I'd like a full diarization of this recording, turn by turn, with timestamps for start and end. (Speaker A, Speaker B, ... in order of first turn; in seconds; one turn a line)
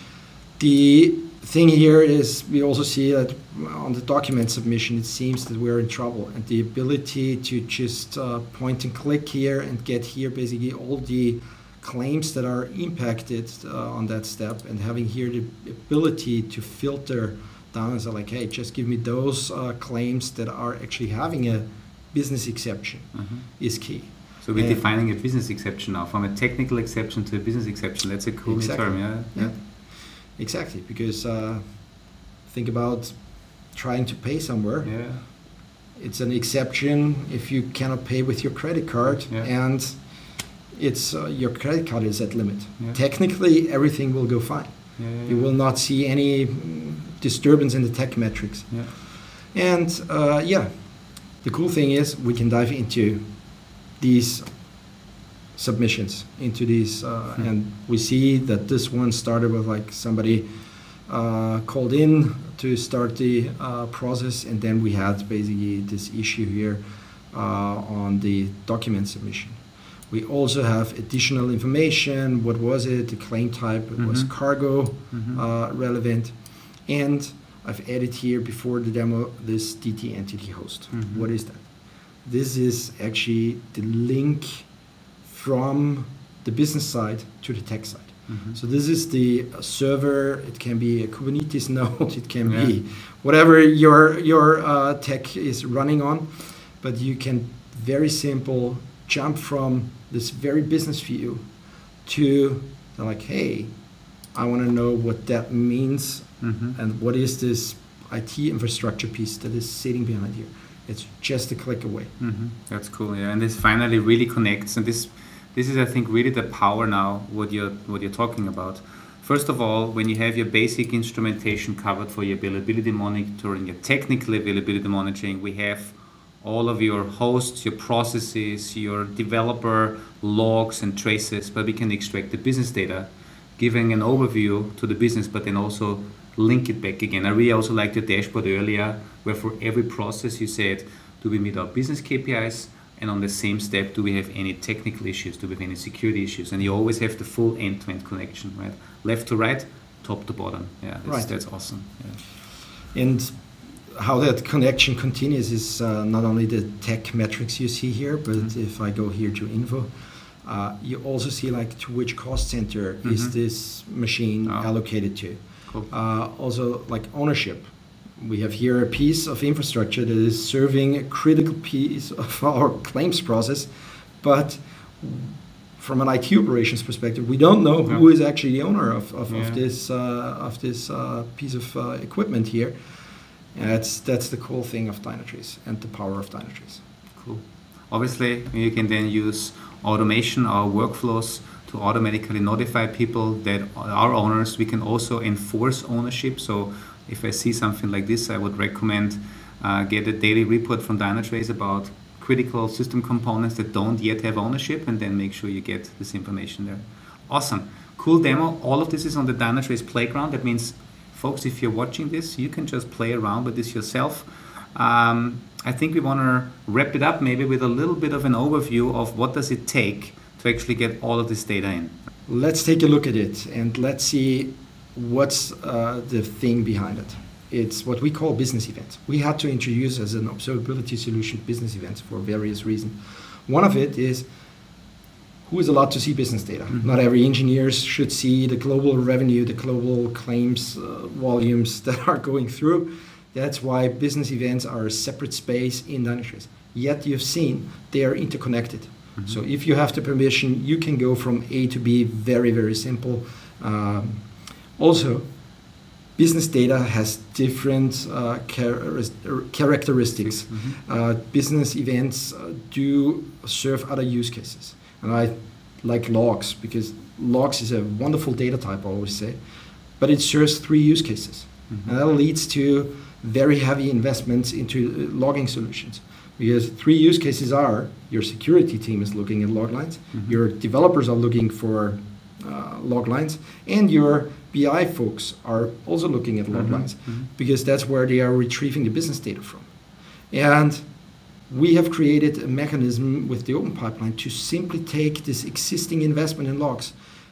Speaker A: 0.6-24.8
Speaker B: 23.1-23.4
Speaker B: 24.4-29.6
Speaker A: 28.4-31.8
Speaker A: 32.5-34.9
Speaker B: 34.8-35.2
Speaker A: 36.0-40.0
Speaker B: 39.1-39.5
Speaker A: 40.7-49.0
Speaker B: 45.0-45.5
Speaker A: 49.5-50.7
Speaker A: 51.4-53.2
Speaker A: 54.0-54.4
Speaker A: 55.5-60.4
Speaker A: 61.1-69.6
Speaker A: 70.1-81.7
Speaker B: 74.0-74.3
Speaker B: 75.1-75.4
Speaker B: 80.9-81.3
Speaker A: 82.2-84.7
Speaker A: 85.2-101.4
Speaker B: 88.3-88.6
Speaker B: 92.5-92.7
Speaker A: 102.0-103.7
Speaker A: 104.3-112.1
Speaker B: 106.4-106.8
Speaker B: 112.2-152.2
Speaker A: 151.0-151.3
Speaker A: 152.9-153.4
Speaker A: 153.9-159.9
Speaker A: 160.4-167.7
Speaker B: 163.0-163.3
Speaker A: 168.2-173.7
Speaker A: 174.2-182.7
Speaker B: 179.3-179.6
Speaker A: 183.5-186.8
Speaker B: 187.1-221.9
Speaker A: 222.3-234.2
Speaker A: 235.5-255.2
Speaker A: 256.2-269.4
Speaker B: 260.2-260.8
Speaker A: 270.0-289.6
Speaker B: 286.5-287.2
Speaker A: 290.3-290.8
Speaker A: 291.5-296.9